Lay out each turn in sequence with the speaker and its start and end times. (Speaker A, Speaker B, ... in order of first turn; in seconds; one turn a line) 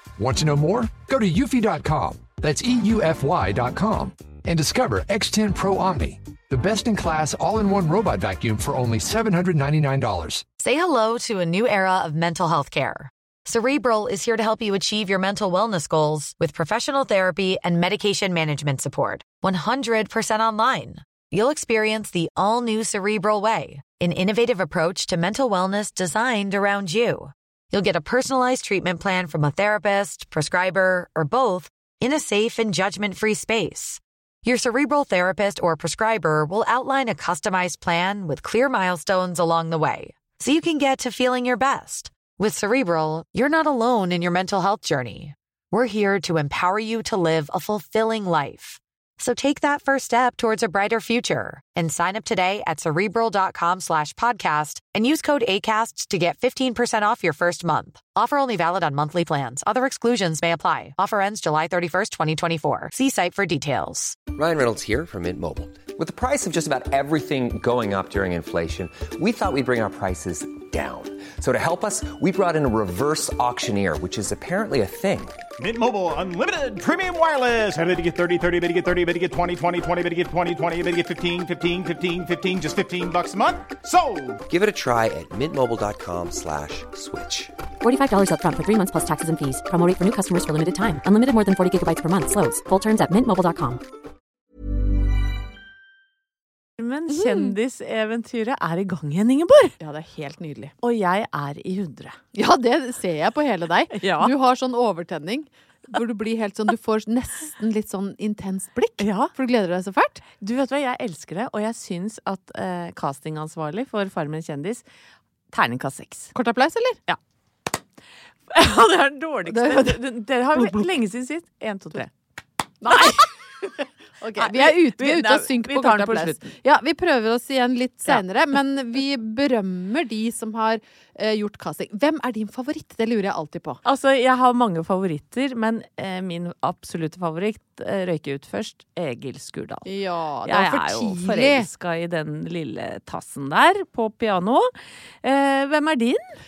Speaker A: 0.2-10.4
Speaker B: 10.6-64.2
Speaker C: 64.3-75.4
Speaker D: 75.6-84.4
Speaker C: 84.5-87.5
Speaker E: 87.8-93.8
Speaker F: 96.8-99.8
Speaker G: 97.1-97.5
Speaker G: 99.8-100.7
Speaker F: 100.8-102.2
Speaker G: 102.3-110.2
Speaker F: 103.9-104.3
Speaker F: 109.0-109.3
Speaker F: 110.4-114.8
Speaker F: 115.5-116.3
Speaker G: 116.3-117.0
Speaker F: 118.5-122.1
Speaker G: 119.5-120.0
Speaker G: 120.5-120.9
Speaker G: 122.8-133.8
Speaker F: 122.8-123.3
Speaker F: 124.3-126.5
Speaker F: 133.8-139.9
Speaker G: 139.8-141.7
Speaker F: 140.4-146.4